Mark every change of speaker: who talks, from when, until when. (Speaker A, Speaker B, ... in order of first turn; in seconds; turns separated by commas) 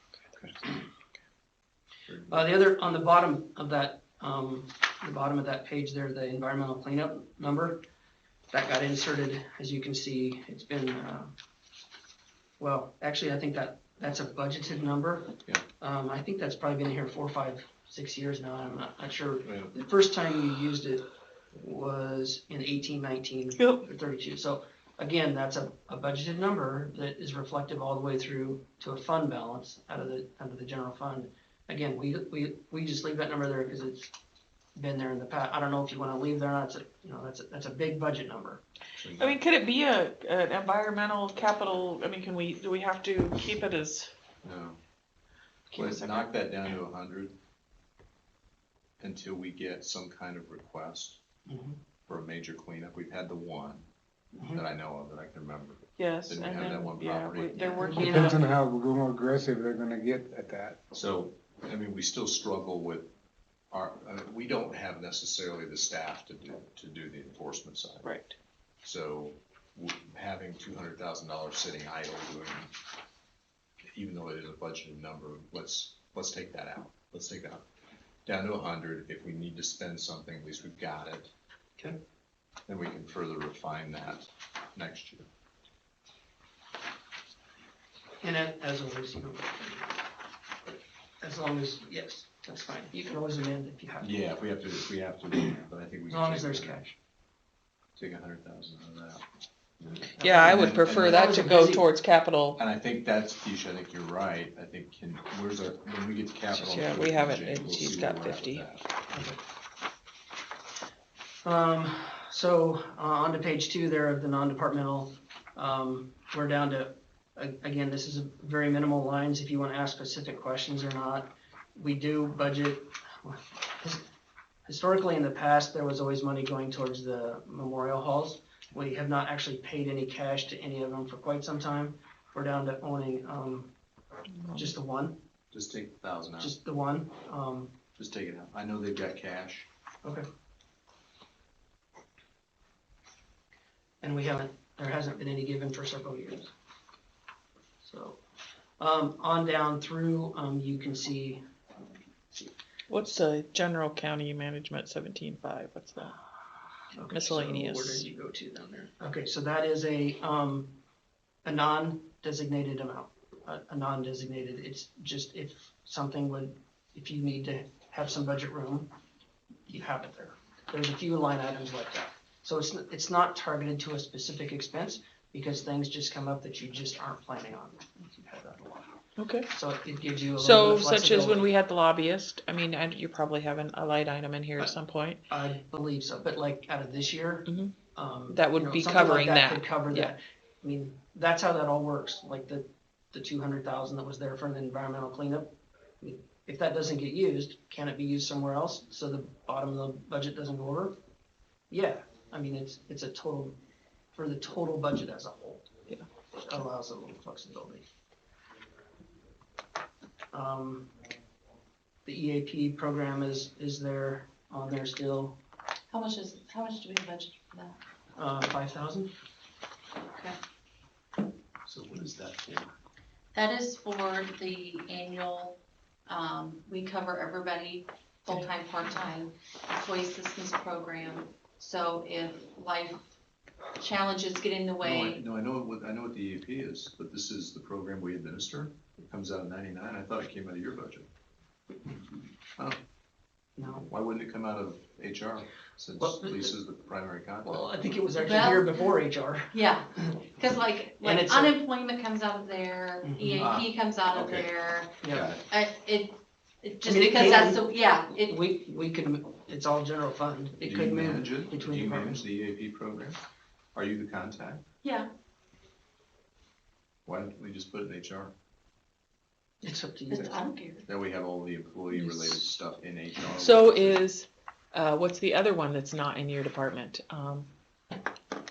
Speaker A: 2.1-2.5, Speaker B: 2.3-7.8, Speaker B: 8.5-11.3, Speaker B: 12.6-34.1, Speaker A: 19.4-19.7, Speaker B: 34.8-38.6, Speaker A: 38.9-39.4, Speaker C: 39.1-44.1, Speaker A: 44.4-44.8, Speaker C: 45.7-46.2, Speaker A: 45.7-47.3, Speaker A: 49.0-51.2, Speaker B: 51.5-51.8, Speaker A: 52.1-53.9, Speaker B: 54.3-54.6, Speaker A: 54.5-57.6, Speaker C: 56.0-58.4, Speaker B: 57.5-58.5, Speaker D: 57.8-60.8, Speaker A: 60.9-63.1, Speaker A: 63.7-68.1, Speaker C: 68.0-68.3, Speaker A: 68.8-72.7, Speaker A: 73.9-77.6, Speaker A: 78.2-81.3, Speaker A: 82.7-85.3, Speaker B: 88.2-90.0, Speaker B: 91.2-94.1, Speaker A: 94.0-96.9, Speaker B: 96.1-96.9, Speaker A: 98.0-99.2, Speaker B: 99.8-101.8, Speaker C: 100.2-102.6, Speaker A: 100.5-101.2, Speaker A: 102.5-108.9, Speaker C: 106.5-108.7, Speaker B: 109.1-109.4, Speaker B: 111.4-124.0, Speaker B: 124.7-133.7, Speaker C: 134.4-134.7, Speaker B: 134.5-135.2, Speaker A: 135.5-136.5, Speaker B: 136.4-137.7, Speaker A: 138.0-139.7, Speaker B: 144.0-146.5, Speaker B: 147.8-148.2, Speaker B: 148.8-151.4, Speaker C: 152.9-156.1, Speaker B: 156.9-160.7, Speaker C: 157.1-158.1, Speaker B: 161.4-168.9, Speaker B: 169.7-179.0, Speaker C: 179.2-179.5, Speaker B: 179.5-181.4, Speaker C: 180.4-185.2, Speaker B: 185.3-200.9, Speaker C: 187.5-187.7, Speaker C: 188.3-190.1, Speaker B: 201.7-203.6, Speaker B: 204.1-205.7, Speaker B: 206.3-207.8, Speaker B: 210.3-210.9, Speaker B: 212.0-215.4, Speaker E: 215.9-217.8, Speaker B: 218.2-219.1, Speaker E: 220.1-220.4, Speaker A: 221.7-222.7, Speaker E: 223.3-233.0, Speaker E: 233.8-235.2, Speaker A: 234.8-241.1, Speaker B: 243.6-243.9, Speaker A: 243.7-247.7, Speaker B: 246.0-246.5, Speaker B: 247.4-250.2, Speaker E: 248.2-248.8, Speaker E: 249.5-254.9, Speaker B: 251.0-251.6, Speaker B: 253.0-253.4, Speaker A: 253.4-254.5, Speaker B: 255.0-255.4, Speaker A: 255.0-255.4, Speaker E: 255.5-258.4, Speaker B: 256.8-262.2, Speaker A: 260.6-263.2, Speaker A: 263.7-264.6, Speaker E: 264.8-265.1, Speaker A: 267.1-268.3, Speaker B: 269.6-270.4, Speaker E: 270.1-270.9, Speaker A: 270.9-274.0, Speaker B: 271.9-272.4, Speaker C: 273.3-277.5